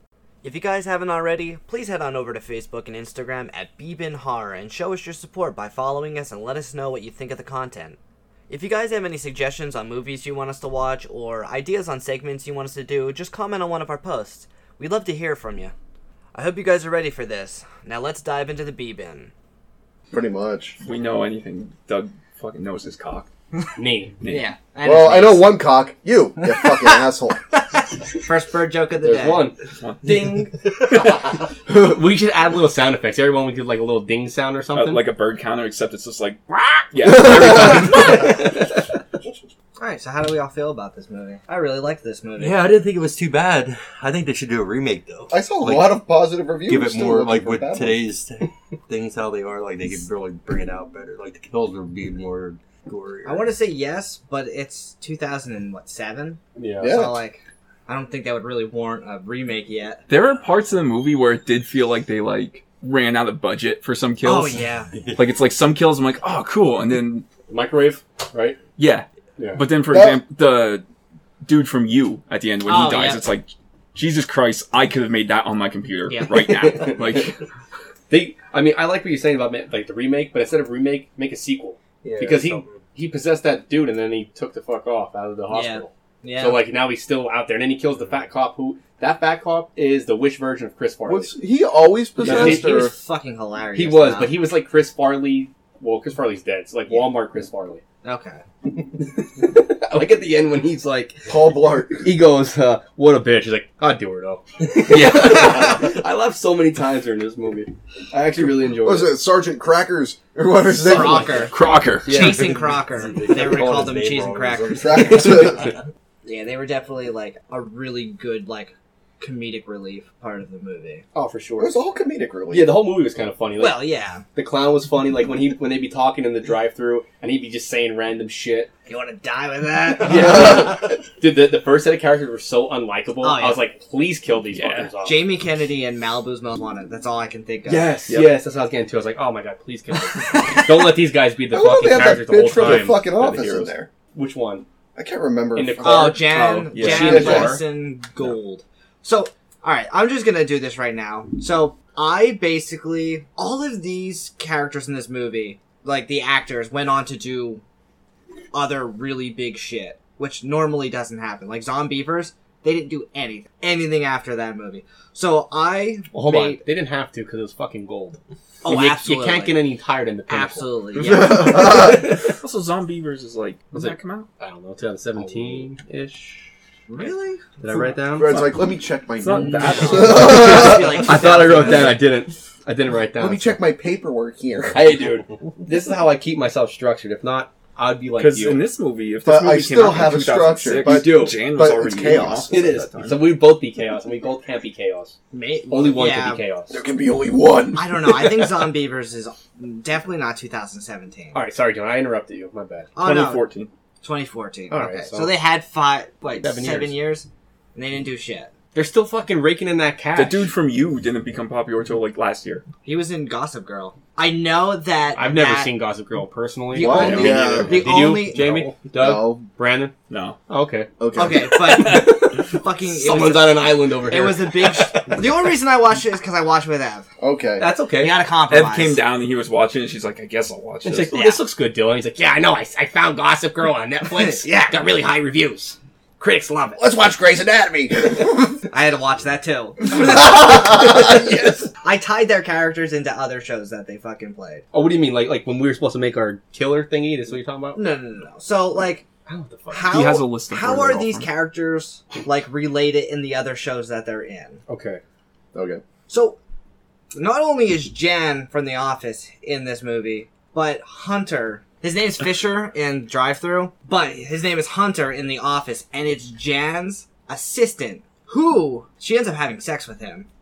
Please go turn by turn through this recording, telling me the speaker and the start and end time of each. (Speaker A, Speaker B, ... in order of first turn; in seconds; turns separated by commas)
Speaker A: 0.4-8.0, Speaker A: 8.5-15.7, Speaker A: 16.4-19.3, Speaker B: 20.1-20.8, Speaker C: 20.8-23.3, Speaker D: 23.8-24.1, Speaker C: 24.2-24.5, Speaker A: 24.2-25.6, Speaker B: 24.8-27.4, Speaker A: 26.4-29.5, Speaker D: 29.0-35.0, Speaker C: 29.8-30.2, Speaker C: 34.7-38.3, Speaker B: 37.0-38.0, Speaker A: 37.4-38.5, Speaker A: 39.8-42.8, Speaker E: 42.4-46.0, Speaker B: 45.3-48.0, Speaker E: 46.6-53.5, Speaker A: 53.2-60.0, Speaker D: 56.6-56.9, Speaker B: 56.8-57.2, Speaker C: 60.1-64.6, Speaker A: 64.2-64.9, Speaker E: 64.9-65.3, Speaker C: 65.2-67.3, Speaker D: 67.5-68.6, Speaker C: 68.8-70.8, Speaker B: 69.9-70.2, Speaker C: 71.4-77.3, Speaker A: 72.7-73.3, Speaker A: 76.1-76.8, Speaker D: 76.4-77.3, Speaker D: 78.1-91.4, Speaker E: 82.0-82.8, Speaker A: 85.5-86.6, Speaker B: 91.1-92.9, Speaker D: 92.2-92.9, Speaker A: 92.2-94.5, Speaker D: 93.7-97.8, Speaker A: 98.0-98.4, Speaker D: 99.0-101.3, Speaker B: 101.3-102.1, Speaker D: 101.9-109.1, Speaker C: 104.9-105.8, Speaker A: 105.2-105.8, Speaker B: 108.8-111.5, Speaker A: 110.8-115.5, Speaker C: 111.5-112.3, Speaker D: 112.1-112.6, Speaker E: 112.1-115.7, Speaker B: 114.8-115.7, Speaker A: 116.2-121.0, Speaker D: 121.1-121.8, Speaker B: 121.6-122.8, Speaker D: 122.5-128.7, Speaker A: 123.6-124.2, Speaker A: 128.9-130.6, Speaker D: 130.0-135.2, Speaker B: 130.1-130.8, Speaker A: 133.2-133.7, Speaker C: 134.6-134.9, Speaker A: 135.0-137.9, Speaker D: 137.7-144.7, Speaker A: 140.2-140.9, Speaker B: 141.5-143.9, Speaker C: 142.6-143.7, Speaker B: 145.0-146.2, Speaker D: 145.6-147.6, Speaker A: 145.8-157.6, Speaker C: 146.7-147.6, Speaker B: 147.0-147.5, Speaker A: 158.5-166.6, Speaker D: 166.1-170.7, Speaker A: 168.6-169.6, Speaker A: 170.3-172.1, Speaker B: 171.0-172.1, Speaker C: 172.2-174.3, Speaker D: 173.7-176.5, Speaker A: 176.9-177.4, Speaker D: 177.6-178.4, Speaker B: 178.1-181.1, Speaker C: 179.2-180.3, Speaker A: 179.4-182.0, Speaker D: 179.4-183.6, Speaker B: 183.2-185.0, Speaker D: 184.7-188.6, Speaker C: 188.2-193.2, Speaker B: 189.2-192.9, Speaker D: 190.7-191.4, Speaker D: 192.5-195.2, Speaker A: 195.3-196.4, Speaker D: 195.7-196.8, Speaker B: 196.7-198.6, Speaker A: 197.8-201.4, Speaker D: 201.3-203.0, Speaker A: 203.0-203.4, Speaker C: 203.0-203.7, Speaker A: 204.0-208.5, Speaker D: 204.7-205.4, Speaker D: 206.4-207.0, Speaker D: 208.7-210.5, Speaker C: 210.2-212.6, Speaker A: 212.8-215.7, Speaker D: 215.2-219.9, Speaker A: 216.7-218.7, Speaker B: 216.8-217.9, Speaker C: 216.9-217.5, Speaker B: 219.0-219.4, Speaker C: 220.1-220.4, Speaker D: 220.5-220.9, Speaker B: 221.0-221.5, Speaker A: 221.2-227.1, Speaker D: 221.6-225.4, Speaker B: 227.2-227.7, Speaker D: 227.6-228.2, Speaker A: 228.0-229.0, Speaker C: 228.5-231.2, Speaker D: 230.8-236.8, Speaker A: 231.1-231.4, Speaker A: 234.1-234.8, Speaker B: 236.8-238.5, Speaker A: 238.7-241.2, Speaker B: 240.3-241.0, Speaker D: 240.9-241.7, Speaker A: 241.8-244.6, Speaker D: 244.7-247.8, Speaker A: 247.8-249.1, Speaker D: 249.3-250.0, Speaker A: 249.7-254.6, Speaker C: 249.9-251.3, Speaker D: 254.7-255.0, Speaker B: 255.5-255.8, Speaker A: 256.1-256.4, Speaker A: 257.1-270.3